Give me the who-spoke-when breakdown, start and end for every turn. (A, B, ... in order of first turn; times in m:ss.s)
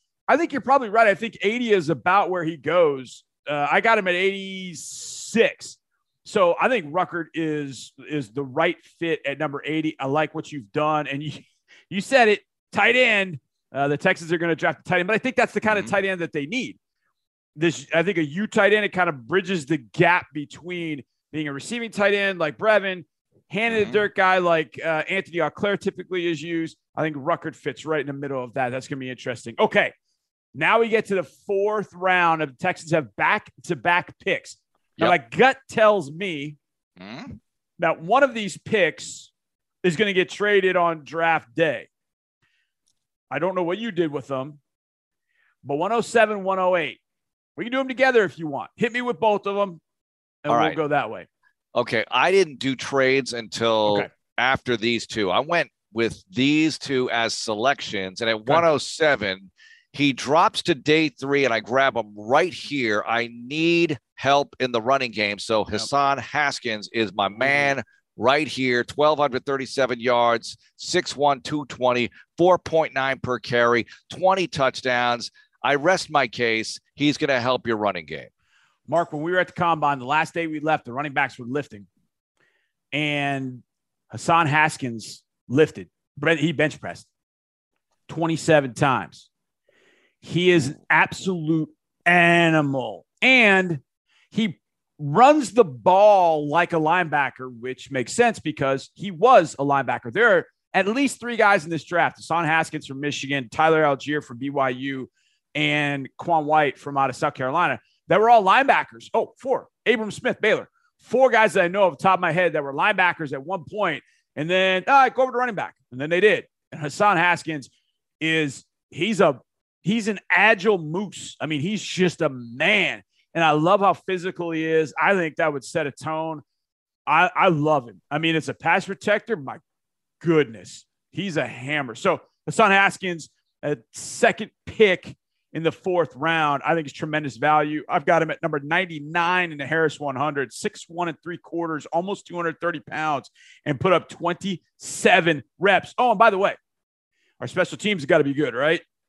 0:00.3-0:16.8 A
0:17.6-0:29.9 A
0:23.7-0:24.0 B
0:30.6-0:36.6 A
0:37.0-0:37.4 B
0:37.8-0:39.3 A
0:39.8-0:41.9 A
0:43.3-0:44.6 A
0:45.6-0:47.0 A
0:47.6-0:49.8 A
0:50.4-0:51.3 A
0:50.5-0:50.8 B
0:51.7-1:18.3 B
1:18.9-1:21.9 A
1:22.9-1:27.1 A
1:28.1-1:29.3 A
1:30.2-2:06.4 A
2:07.1-2:09.6 A
2:10.2-2:26.6 A
2:27.4-2:28.8 A